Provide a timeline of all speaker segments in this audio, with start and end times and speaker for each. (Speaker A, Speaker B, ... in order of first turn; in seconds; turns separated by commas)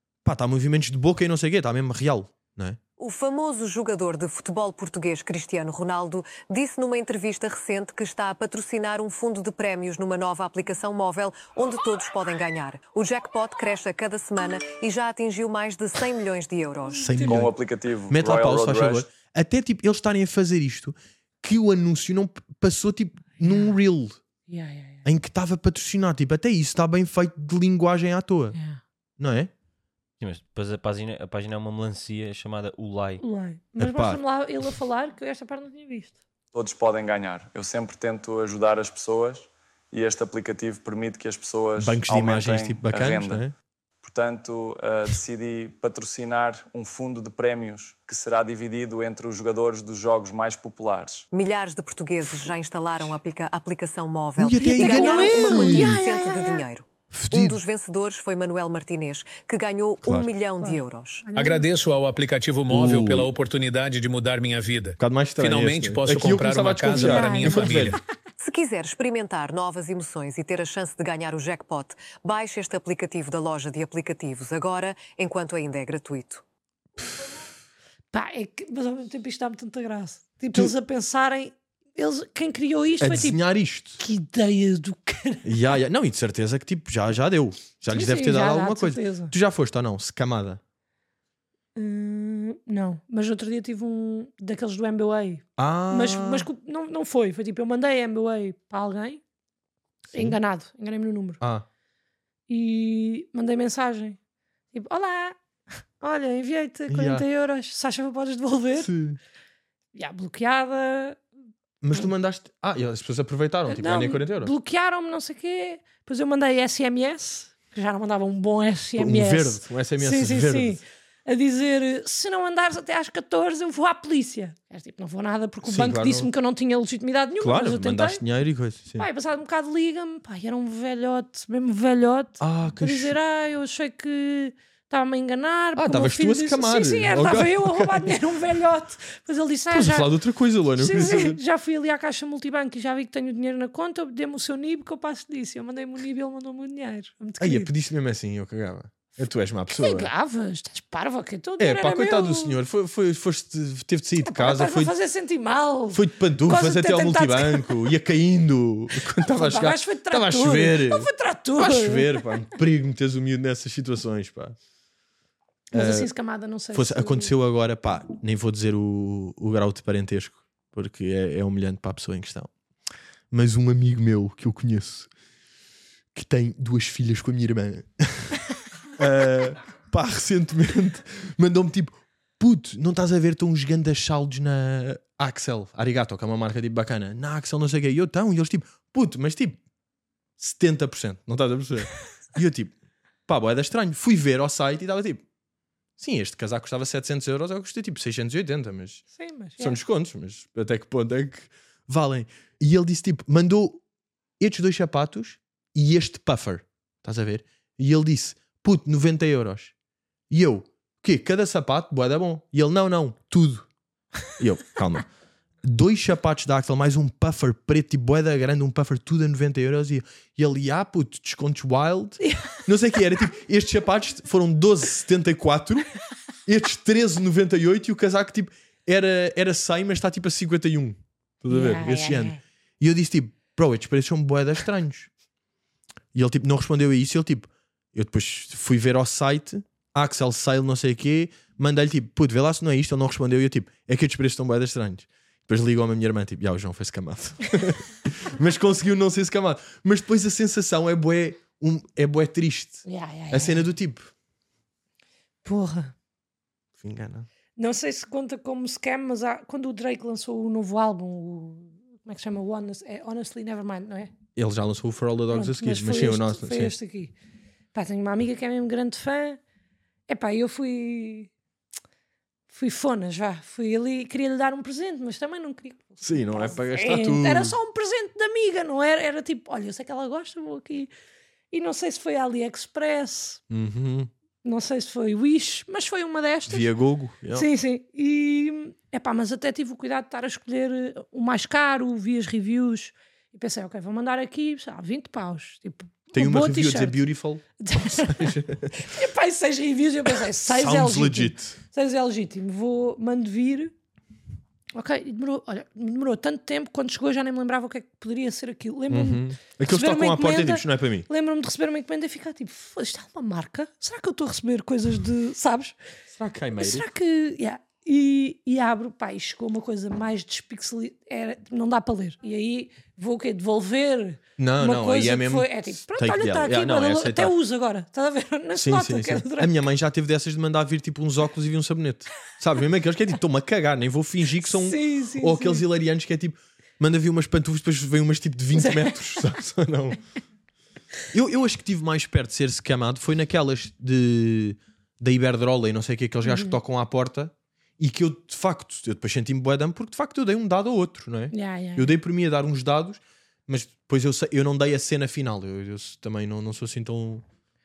Speaker A: 0.2-2.8, Speaker B: 3.0-17.2, Speaker C: 16.9-17.5, Speaker A: 17.0-17.5, Speaker D: 17.2-19.1, Speaker A: 18.1-24.2, Speaker C: 23.4-23.7, Speaker C: 24.5-25.0, Speaker A: 25.0-28.6, Speaker C: 28.5-28.8, Speaker A: 29.2-29.5, Speaker E: 30.2-33.2, Speaker C: 33.2-36.2, Speaker A: 33.8-34.2, Speaker D: 36.5-43.4, Speaker A: 41.8-43.5, Speaker D: 44.0-51.2, Speaker B: 51.3-61.3, Speaker A: 54.4-56.0, Speaker C: 54.6-56.6, Speaker A: 57.1-57.6, Speaker C: 60.6-61.6, Speaker F: 61.3-68.0, Speaker A: 62.7-63.3, Speaker A: 65.0-68.0, Speaker C: 66.9-68.0, Speaker B: 68.4-76.4, Speaker C: 78.1-83.4, Speaker A: 83.0-84.0, Speaker C: 84.0-85.7, Speaker A: 85.4-90.6, Speaker C: 87.9-89.3, Speaker C: 91.8-99.2, Speaker A: 95.6-96.5, Speaker C: 100.1-101.4, Speaker A: 101.4-101.7, Speaker C: 102.5-104.2, Speaker C: 104.7-105.3, Speaker C: 106.0-108.9, Speaker A: 106.9-107.2, Speaker A: 108.8-109.2, Speaker C: 109.9-111.2, Speaker A: 111.8-114.5, Speaker C: 113.7-128.2, Speaker A: 119.0-120.8, Speaker A: 125.6-126.3, Speaker A: 127.4-129.1, Speaker C: 129.0-140.1, Speaker A: 132.4-133.1, Speaker A: 135.8-138.2, Speaker A: 139.7-141.4, Speaker C: 140.8-147.7, Speaker A: 147.4-150.1, Speaker C: 149.7-152.6, Speaker A: 151.6-154.9, Speaker C: 154.2-157.9, Speaker A: 155.9-164.6, Speaker C: 159.1-162.3, Speaker A: 165.7-166.1, Speaker C: 165.7-167.3, Speaker A: 166.7-172.5, Speaker A: 173.3-175.1, Speaker A: 176.1-178.4, Speaker A: 179.0-189.6, Speaker A: 190.4-192.7, Speaker A: 193.3-195.2, Speaker A: 196.0-199.0, Speaker C: 199.1-199.8, Speaker A: 199.6-203.8, Speaker A: 204.4-209.7, Speaker A: 210.3-213.7, Speaker A: 214.4-215.1, Speaker A: 215.6-225.9, Speaker C: 222.2-222.6, Speaker A: 226.4-235.1, Speaker C: 231.5-232.4, Speaker A: 236.1-254.1, Speaker C: 252.8-253.7, Speaker C: 255.4-255.9, Speaker A: 256.8-257.3, Speaker C: 257.6-264.1, Speaker A: 264.4-266.7, Speaker C: 265.3-267.1, Speaker C: 267.7-269.4, Speaker C: 270.1-271.3, Speaker C: 272.5-280.9, Speaker A: 276.0-277.6, Speaker C: 281.5-283.4, Speaker A: 283.5-284.1, Speaker C: 284.4-286.7, Speaker A: 286.5-287.5, Speaker C: 287.3-297.0, Speaker A: 296.1-298.8, Speaker C: 297.6-303.7, Speaker A: 300.1-301.6, Speaker C: 304.7-315.8, Speaker A: 308.9-311.1, Speaker A: 316.1-316.9, Speaker C: 316.6-329.5, Speaker A: 324.4-327.3, Speaker A: 328.5-340.0, Speaker C: 334.4-335.6, Speaker C: 338.5-339.0, Speaker A: 341.1-357.2, Speaker C: 346.2-346.6, Speaker C: 351.3-351.9